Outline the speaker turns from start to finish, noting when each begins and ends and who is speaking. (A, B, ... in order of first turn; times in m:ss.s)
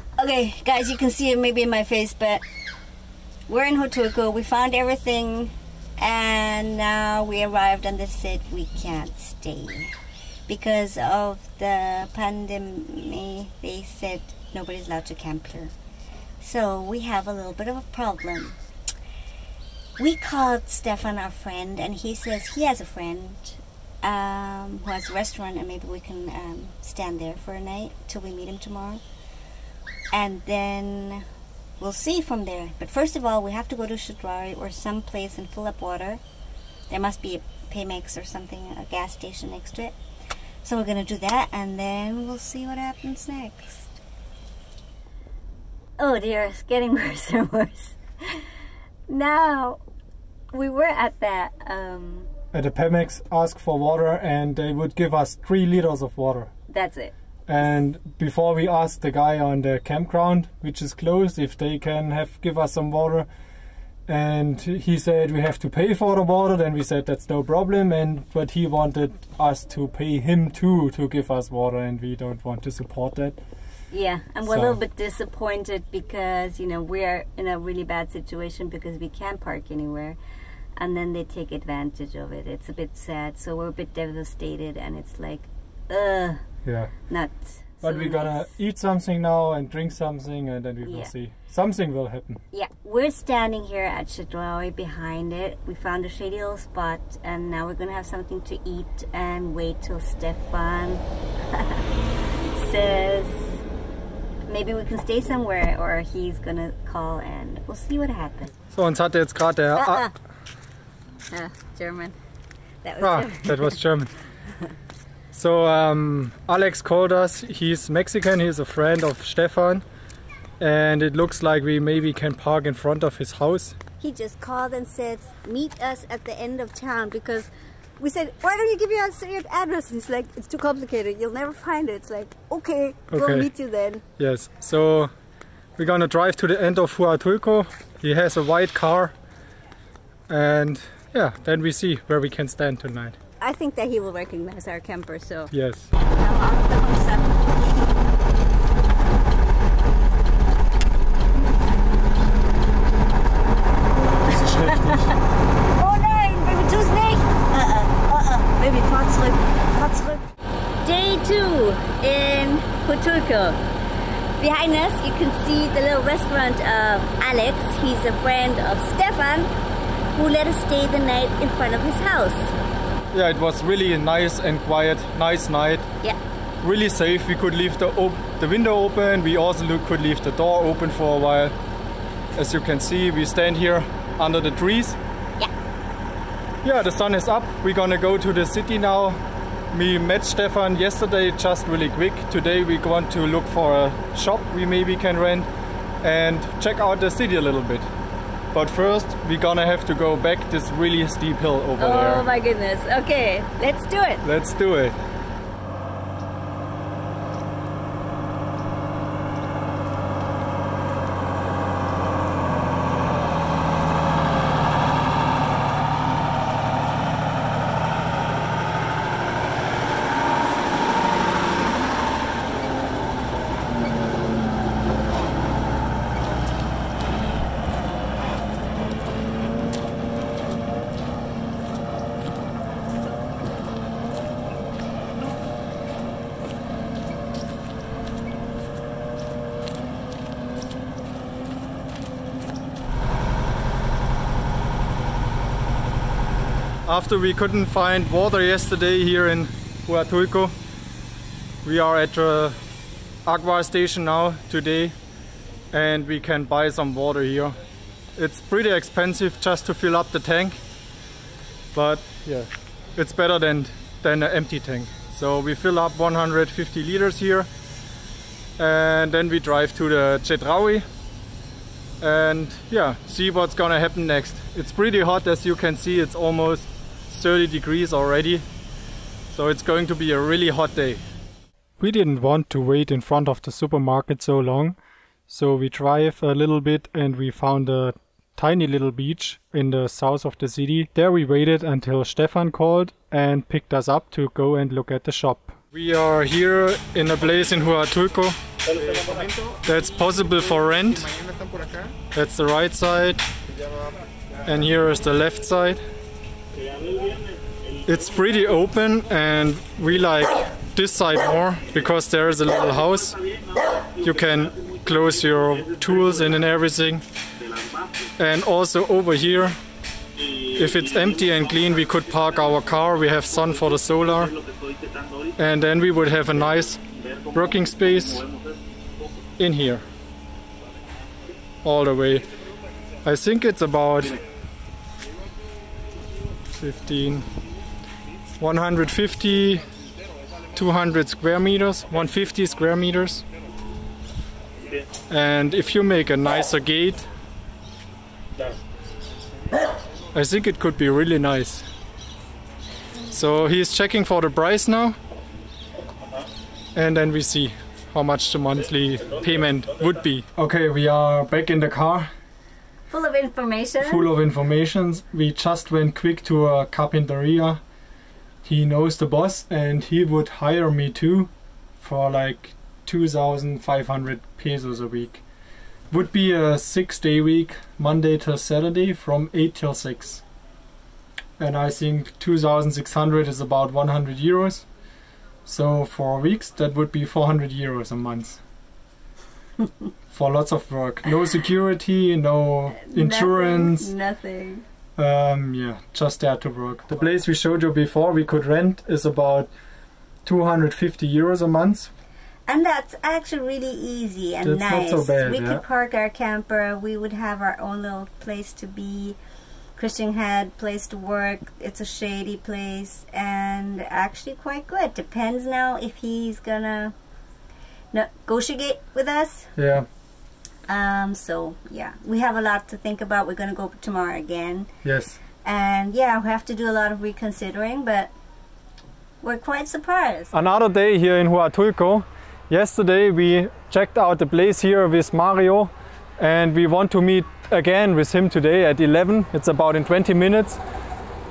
0:00.2-0:02.4 A
0:03.5-0:09.9 A
0:10.5-0:15.7 A
0:16.4-0:18.6 A
0:20.0-0:29.0 A
0:30.1-0:31.2 A
0:31.8-0:36.2 A
0:36.9-0:40.0 A
0:40.6-0:44.0 A
0:46.0-0:48.4 A
0:49.1-0:49.8 A
0:50.5-0:52.3 A
0:52.5-0:56.5 B
0:56.7-0:57.1 A
0:57.5-1:03.3 B
1:04.1-1:13.4 B
1:13.9-1:20.2 A
1:14.4-1:14.8 B
1:20.8-1:26.4 A
1:26.6-1:26.9 B
1:27.1-1:28.4 A
1:27.8-1:32.4 B
1:30.8-1:31.1 A
1:32.5-1:41.8 A
1:42.5-1:43.6 A
1:44.5-1:48.5 A
1:48.7-1:50.0 B
1:49.7-1:50.1 A
1:51.3-1:52.2 A
1:52.8-1:53.8 A
1:53.0-1:54.1 B
1:55.3-1:59.8 B
2:00.6-2:03.8 B
2:04.0-2:14.0 A
2:13.1-2:13.5 B
2:14.2-2:15.1 B
2:15.8-2:19.1 B
2:20.3-2:23.2 B
2:23.4-2:28.0 A
2:25.5-2:25.9 B
2:34.2-2:35.1 B
2:34.5-2:35.2 A
2:35.8-2:40.2 A
2:40.8-2:43.6 A
2:44.4-2:49.5 A
2:50.1-2:52.5 A
2:53.1-2:55.9 B
2:56.6-3:01.5 B
3:02.3-3:05.0 B
3:06.6-3:09.2 B
3:09.7-3:15.5 B
3:16.0-3:17.9 B
3:18.5-3:22.2 B
3:21.8-3:24.2 A
3:24.2-3:25.0 B
4:06.8-4:10.5 B
4:11.6-4:12.6 B
4:13.2-4:15.0 B
4:15.7-4:17.6 B
4:18.2-4:20.6 B
4:21.7-4:27.5 B
4:28.6-4:30.8 B
4:32.0-4:38.4 B
4:39.3-4:41.0 B
4:41.8-4:44.8 B
4:45.3-4:59.1 B
4:59.6-5:01.3 B
5:02.1-5:03.2 B
5:04.4-5:05.8 B
5:07.8-5:13.2 B
5:14.0-5:17.0 B
5:18.2-5:19.6 B
5:20.5-5:24.3 B
5:25.4-5:26.8 B
5:27.3-5:28.2 B
5:29.4-5:29.8 B
5:31.6-5:32.3 B
5:33.0-5:34.2 B
5:36.6-5:37.3 B
5:38.4-5:39.6 B
5:40.5-5:43.2 B
5:45.1-5:47.0 B
5:50.1-5:51.6 B
5:53.1-5:55.0 B
5:56.7-6:02.1 B
6:02.9-6:04.0 A
6:03.8-6:07.6 B
6:08.4-6:15.2 B
6:15.9-6:20.2 B
6:21.4-6:24.7 B
6:25.4-6:28.4 B
6:30.1-6:33.9 B
6:32.8-6:34.6 A
6:35.0-6:39.5 B
6:40.2-6:41.9 B
6:42.5-6:49.2 A
6:44.4-6:45.6 B
6:49.8-6:56.9 A
6:57.9-6:59.5 A
6:59.6-6:59.9 B
7:00.7-7:04.7 A
7:04.8-7:05.2 B
7:05.4-7:08.1 A
7:09.2-7:10.3 A
7:10.3-7:20.6 B